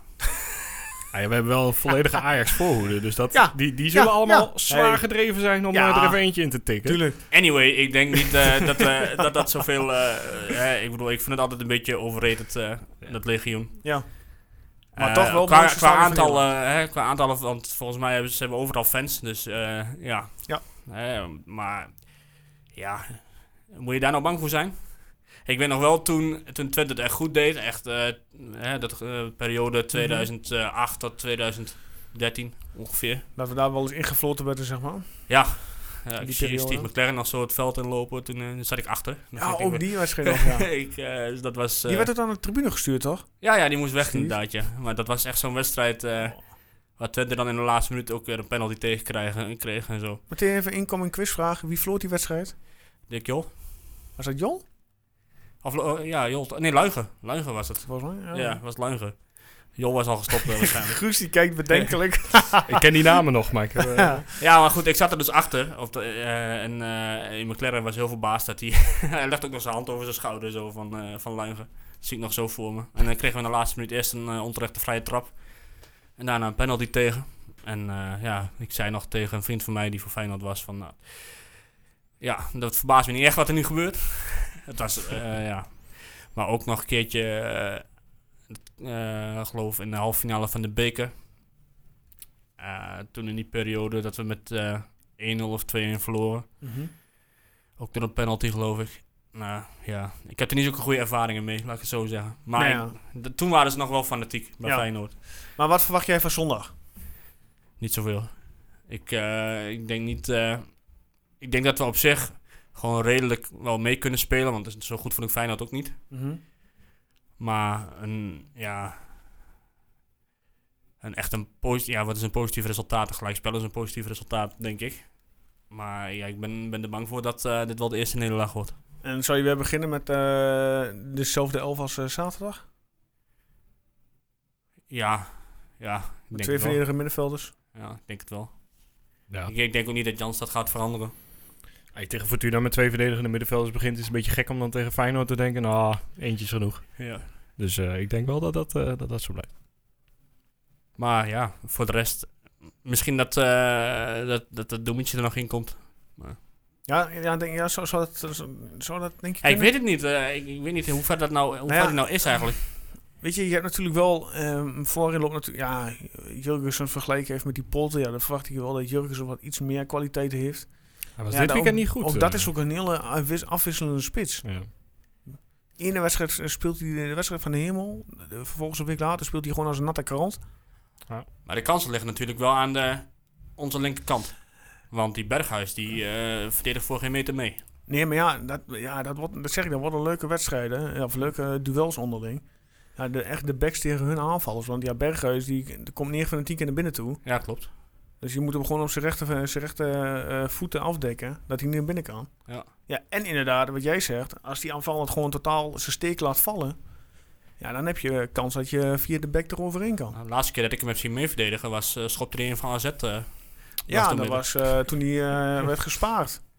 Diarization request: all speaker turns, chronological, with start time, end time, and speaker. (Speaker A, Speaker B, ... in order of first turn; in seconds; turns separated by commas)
Speaker A: 1.1-7.0, Speaker B: 3.3-7.9, Speaker C: 7.3-14.1, Speaker B: 13.8-16.5, Speaker C: 14.9-33.2, Speaker B: 29.9-30.3, Speaker B: 33.4-35.6, Speaker C: 35.3-42.1, Speaker B: 36.2-36.9, Speaker B: 39.4-40.7, Speaker B: 41.9-44.4, Speaker C: 43.4-50.2, Speaker B: 50.3-52.5, Speaker C: 53.0-53.6, Speaker B: 54.2-54.6, Speaker C: 55.6-61.9, Speaker B: 57.9-58.6, Speaker B: 60.9-62.6, Speaker A: 62.5-64.2, Speaker B: 64.0-64.2, Speaker C: 64.4-91.1, Speaker C: 92.6-96.6, Speaker B: 96.6-96.9, Speaker C: 97.8-105.2, Speaker B: 102.5-102.9, Speaker B: 104.6-106.7, Speaker C: 107.8-116.0, Speaker B: 116.1-116.4, Speaker C: 117.4-119.2, Speaker C: 121.0-128.8, Speaker B: 129.0-132.6, Speaker C: 134.9-136.9, Speaker B: 136.3-137.5, Speaker C: 137.7-141.1, Speaker A: 141.9-149.5, Speaker C: 147.0-147.3, Speaker C: 151.0-156.4, Speaker B: 156.9-159.7, Speaker C: 159.4-162.7, Speaker B: 161.7-174.7, Speaker A: 171.2-172.5, Speaker A: 174.4-174.7, Speaker B: 175.2-180.4, Speaker C: 181.4-187.6, Speaker B: 187.9-197.2, Speaker C: 197.2-197.7, Speaker B: 198.2-206.9, Speaker B: 207.6-210.2, Speaker C: 210.1-214.9, Speaker B: 213.9-216.4